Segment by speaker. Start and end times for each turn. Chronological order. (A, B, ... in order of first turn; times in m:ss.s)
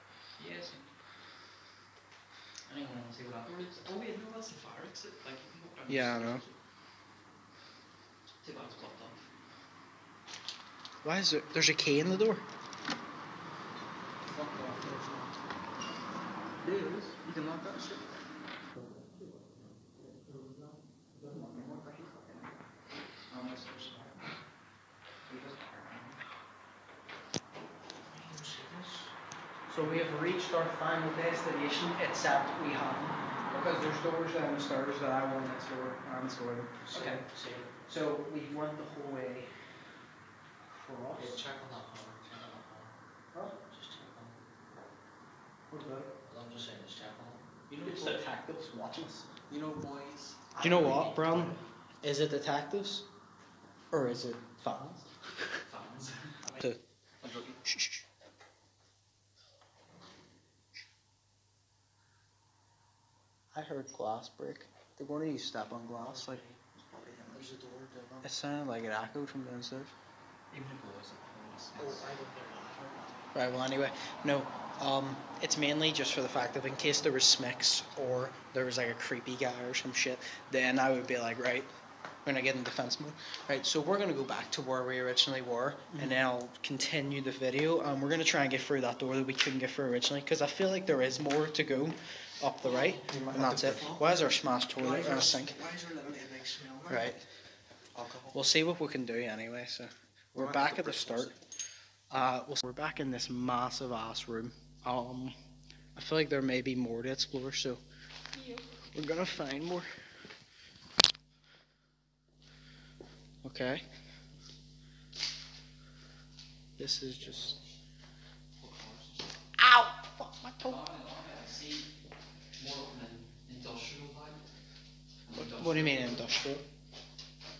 0:00.4-0:00.9 A
0:02.7-0:06.6 A
0:05.9-0:06.4 B
0:08.4-0:09.2 A
0:11.0-0:12.4 B
0:14.3-0:14.8 A
0:16.6-0:18.1 A
0:18.8-0:19.2 C
0:20.1-0:22.5 A
0:23.3-0:24.3 A
0:25.3-0:26.2 A
0:28.1-0:29.1 C
0:29.7-0:37.2 B
0:36.8-0:37.7 C
0:37.9-0:39.5 B
0:40.7-0:41.4 B
0:41.1-0:42.9 C
0:43.7-0:44.4 C
0:45.7-0:46.1 B
0:46.2-0:47.5 C
0:47.7-0:48.2 A
0:47.8-0:49.3 B
0:49.5-0:51.3 A
0:50.5-0:51.6 C
0:50.6-0:53.0 B
0:53.9-0:55.0 B
0:55.6-0:56.5 A
0:57.2-0:57.6 A
0:57.7-0:58.0 B
1:03.5-1:06.4 B
1:06.0-1:06.6 C
1:07.3-1:08.3 C
1:08.2-1:09.9 B
1:10.5-1:12.1 A
1:11.8-1:13.3 C
1:13.3-1:21.7 B
1:22.2-1:35.6 B
1:32.6-1:37.2 C
1:36.9-1:37.2 B
1:37.9-1:38.4 C
1:38.3-1:41.3 B
1:40.4-1:41.4 C
1:42.1-1:45.4 B
1:46.0-1:47.8 B
1:48.9-1:49.9 B
1:53.4-1:53.8 B
1:56.8-1:57.6 B
1:57.2-1:57.8 C
1:58.6-1:59.5 A
1:59.6-2:00.8 B
2:00.6-2:01.9 A
2:02.6-2:04.4 A
2:05.2-2:06.4 A
2:05.4-2:06.6 B